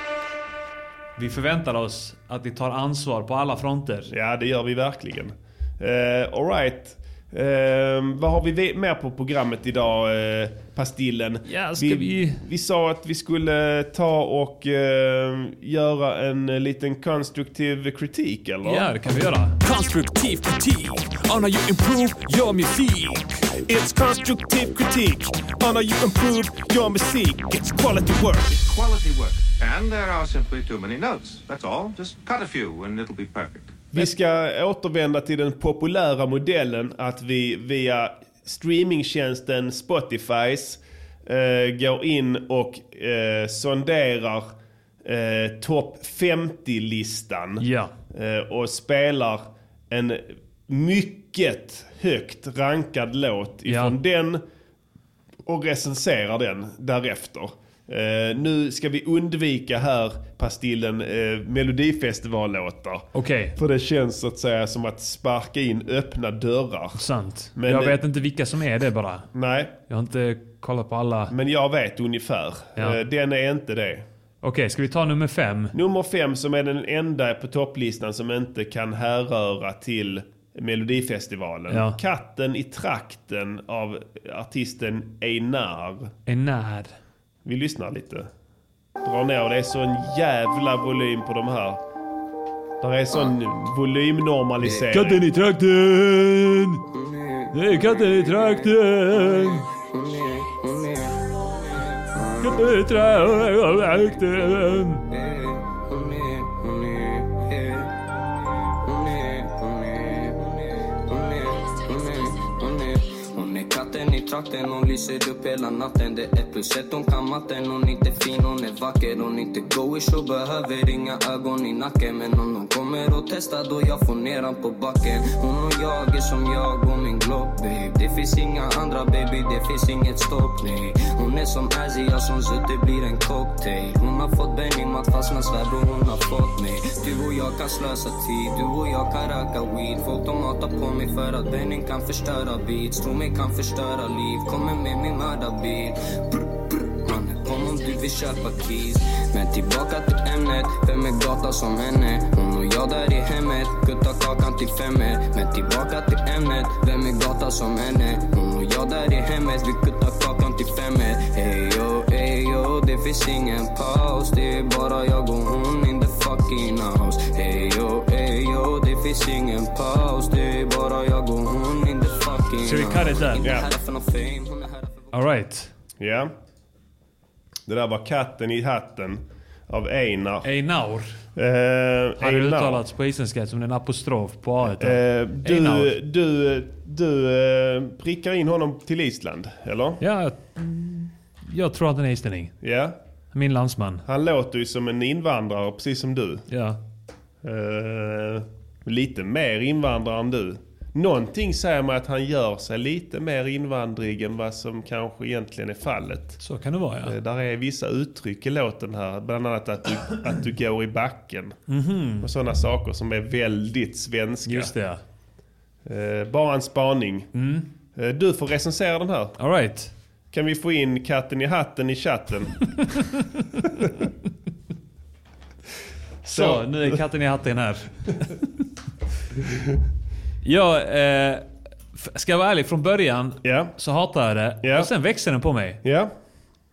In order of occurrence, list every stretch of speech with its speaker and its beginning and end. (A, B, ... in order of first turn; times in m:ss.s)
0:01.2-0:04.1 A
0:04.1-0:18.9 B
0:11.4-0:12.4 A
0:18.6-0:19.6 A
0:19.6-0:23.2 C
0:23.7-0:28.3 D
0:28.6-0:33.7 E
0:33.9-0:44.5 B
0:45.0-0:54.4 B
0:47.6-0:47.9 A
0:53.6-0:54.0 A
0:55.4-1:07.0 B
1:03.1-1:03.5 A
1:07.0-1:09.3 A
1:07.6-1:08.0 B
1:09.3-1:09.7 B
1:09.9-1:11.3 A
1:11.3-1:14.0 B
1:14.4-1:15.7 A
1:15.7-1:26.1 B
1:21.7-1:22.0 A
1:26.2-1:26.9 A
1:27.4-1:28.3 B
1:29.0-1:31.8 B
1:32.8-1:35.2 B
1:34.8-1:36.8 A
1:36.9-1:42.7 F
1:37.5-1:39.6 A
1:42.4-1:45.0 A
1:45.1-1:47.9 F
1:48.8-2:55.1 F
2:52.6-2:53.5 A
2:53.4-2:53.7 B
2:55.1-2:55.7 A
2:56.0-2:56.3 B
2:57.7-3:00.5 B
3:00.4-3:01.2 A
3:01.4-3:02.8 B
3:02.2-3:06.0 A
3:04.8-3:10.0 B
3:10.0-3:12.6 A
3:12.6-3:12.9 B
3:13.3-3:14.0 A
3:14.0-3:16.5 B
3:16.5-3:16.8 A
3:17.4-3:26.4 B
3:26.4-3:27.1 A
3:27.0-3:31.6 B
3:31.7-3:32.3 A
3:32.2-3:34.7 B
3:34.5-3:35.0 A
3:35.8-3:37.3 B
3:37.3-3:37.7 A
3:37.9-3:39.4 B
3:39.4-3:39.9 A
3:40.3-3:42.7 B
3:46.2-3:48.4 A
3:46.3-3:47.0 B
3:50.4-3:55.8 A
3:53.4-3:53.7 B
3:54.6-3:54.9 B
3:55.8-3:56.1 B